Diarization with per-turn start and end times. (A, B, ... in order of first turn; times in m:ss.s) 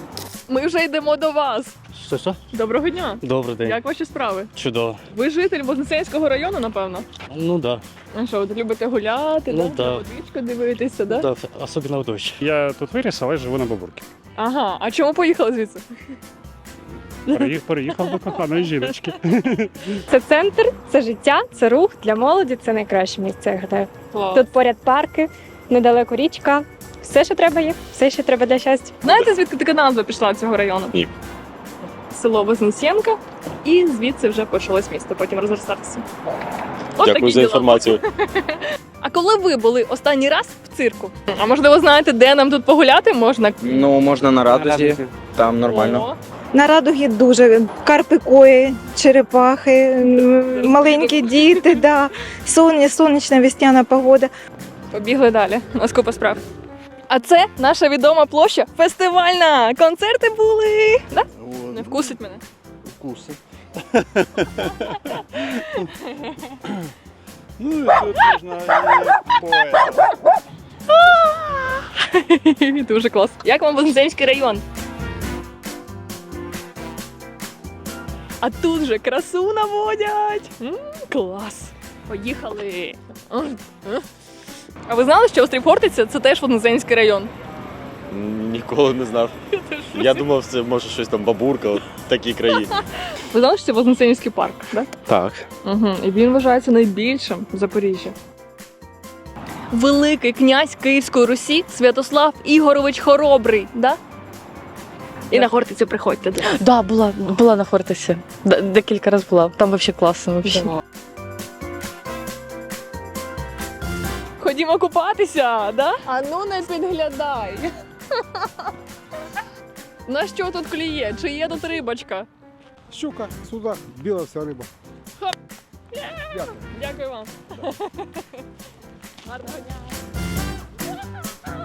0:00.5-0:01.7 A
0:01.9-0:02.4 B
0:02.5-0:04.5 A
0:03.2-0:03.8 B
0:04.5-0:05.0 B
0:05.1-0:07.0 A
0:07.3-0:07.8 B
0:08.1-0:11.3 A
0:09.5-0:10.0 B
0:11.1-0:12.4 B
0:12.4-0:14.0 C
0:14.4-0:15.8 A
0:17.3-0:18.9 A
0:17.3-0:20.0 C
0:20.1-0:29.0 D
0:24.1-0:24.4 A
0:29.0-0:31.0 A
0:32.1-0:36.0 A
0:37.0-0:43.9 A
0:37.0-0:38.0 E
0:43.6-0:46.1 F
0:45.6-0:46.2 A
0:46.5-0:54.3 G
0:50.6-0:51.6 A
0:54.9-0:56.4 A
0:57.1-1:02.4 A
1:05.1-1:06.5 A
1:07.6-1:09.6 B
1:10.9-1:14.6 A
1:18.4-1:24.0 A
1:24.9-1:27.3 A
1:28.1-1:29.3 E
1:29.5-1:30.2 A
1:29.9-1:32.7 E
1:33.2-1:34.9 A
1:35.6-1:38.1 A
1:39.7-1:44.0 A
1:45.3-1:46.5 A
1:46.5-1:50.7 H
1:54.4-1:57.7 A
2:00.1-2:02.3 A
2:02.9-2:04.7 I
2:05.9-2:08.2 A
2:06.3-2:06.6 I
2:09.3-2:09.7 A